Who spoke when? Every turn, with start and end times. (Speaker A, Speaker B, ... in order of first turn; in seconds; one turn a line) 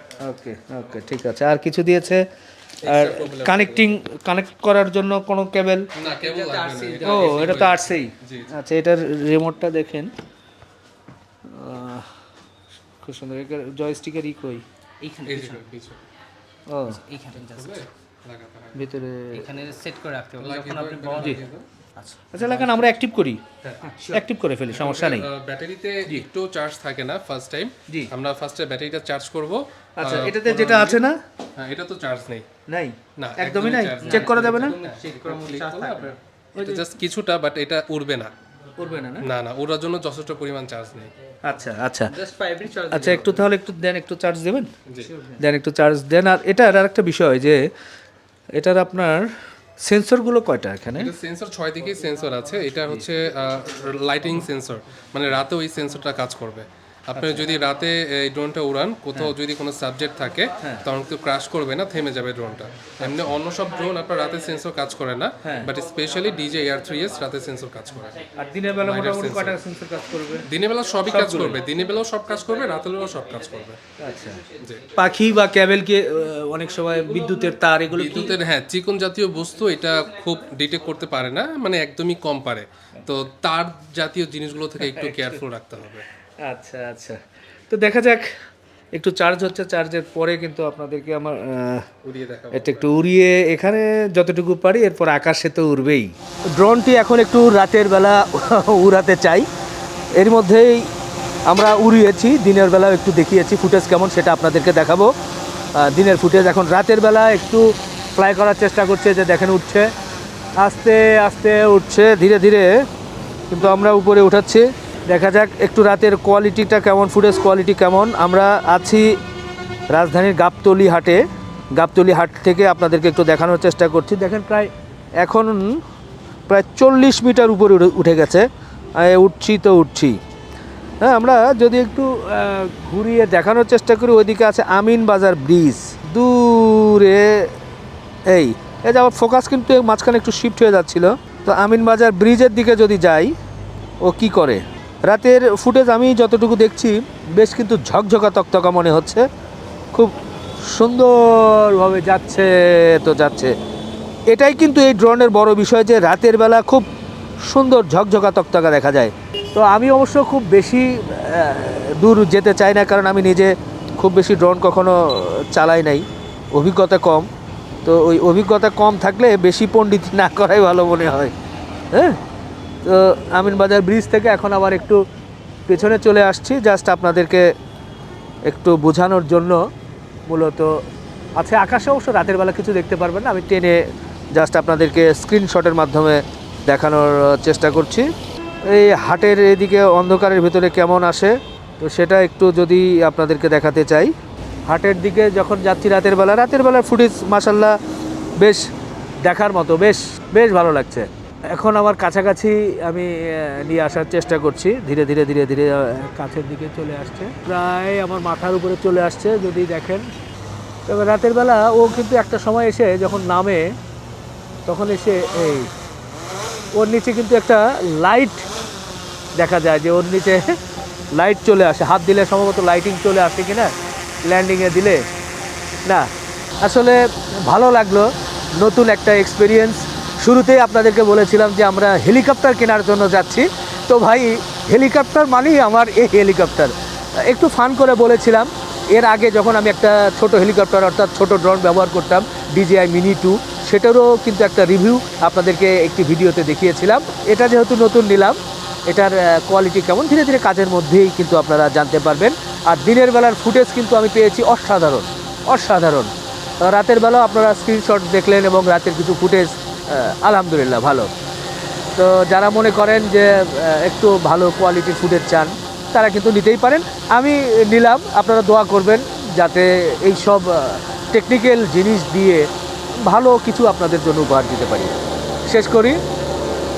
Speaker A: 0.2-2.2
Speaker B: 2.8-3.9
Speaker A: 2.8-5.9
Speaker B: 6.0-8.5
Speaker C: 6.0-7.5
Speaker A: 7.0-10.1
Speaker A: 11.4-12.1
Speaker A: 13.0-14.6
Speaker C: 15.0-15.6
Speaker B: 15.3-16.0
Speaker A: 16.7-17.0
Speaker C: 16.9-17.9
Speaker B: 17.4-18.8
Speaker A: 18.7-19.4
Speaker C: 19.3-21.4
Speaker B: 20.4-21.6
Speaker C: 21.9-22.9
Speaker A: 22.3-23.4
Speaker C: 23.8-24.2
Speaker A: 24.1-25.3
Speaker B: 24.7-31.0
Speaker A: 30.0-31.2
Speaker B: 31.6-32.5
Speaker A: 32.7-34.8
Speaker B: 33.2-38.3
Speaker C: 34.0-36.1
Speaker A: 36.5-36.8
Speaker A: 38.8-39.2
Speaker B: 39.2-41.1
Speaker A: 41.4-42.1
Speaker C: 42.1-43.5
Speaker A: 42.9-44.7
Speaker C: 45.0-45.4
Speaker A: 45.4-47.7
Speaker A: 48.5-51.1
Speaker B: 50.9-68.2
Speaker A: 57.1-57.4
Speaker A: 65.4-65.7
Speaker A: 68.4-70.5
Speaker B: 68.8-69.6
Speaker B: 70.5-73.8
Speaker A: 71.1-71.6
Speaker A: 74.0-74.4
Speaker B: 74.6-74.8
Speaker A: 75.0-78.4
Speaker B: 77.9-86.0
Speaker A: 84.9-85.3
Speaker A: 86.4-88.2
Speaker A: 88.9-91.8
Speaker B: 92.0-93.0
Speaker A: 92.5-99.5
Speaker A: 100.2-100.9
Speaker A: 101.5-105.1
Speaker A: 105.8-109.9
Speaker A: 110.6-112.7
Speaker A: 113.5-119.2
Speaker A: 119.9-125.8
Speaker A: 126.5-130.2
Speaker A: 131.0-137.5
Speaker A: 138.3-143.3
Speaker A: 144.0-149.2
Speaker A: 150.7-153.5
Speaker A: 154.3-156.9
Speaker A: 157.4-167.3
Speaker A: 167.8-171.3
Speaker A: 171.9-172.2
Speaker A: 172.8-175.0
Speaker A: 175.7-177.5
Speaker A: 178.4-179.6
Speaker A: 180.3-180.8
Speaker A: 181.3-183.8
Speaker A: 184.3-188.1
Speaker A: 188.7-194.1
Speaker A: 194.7-197.8
Speaker A: 198.4-198.7
Speaker A: 199.2-210.1
Speaker A: 210.9-213.7
Speaker A: 214.7-215.7
Speaker A: 216.7-218.5
Speaker A: 219.3-220.6
Speaker A: 221.1-225.1
Speaker A: 226.6-261.1
Speaker A: 261.9-272.5
Speaker A: 273.0-274.9
Speaker A: 275.5-276.0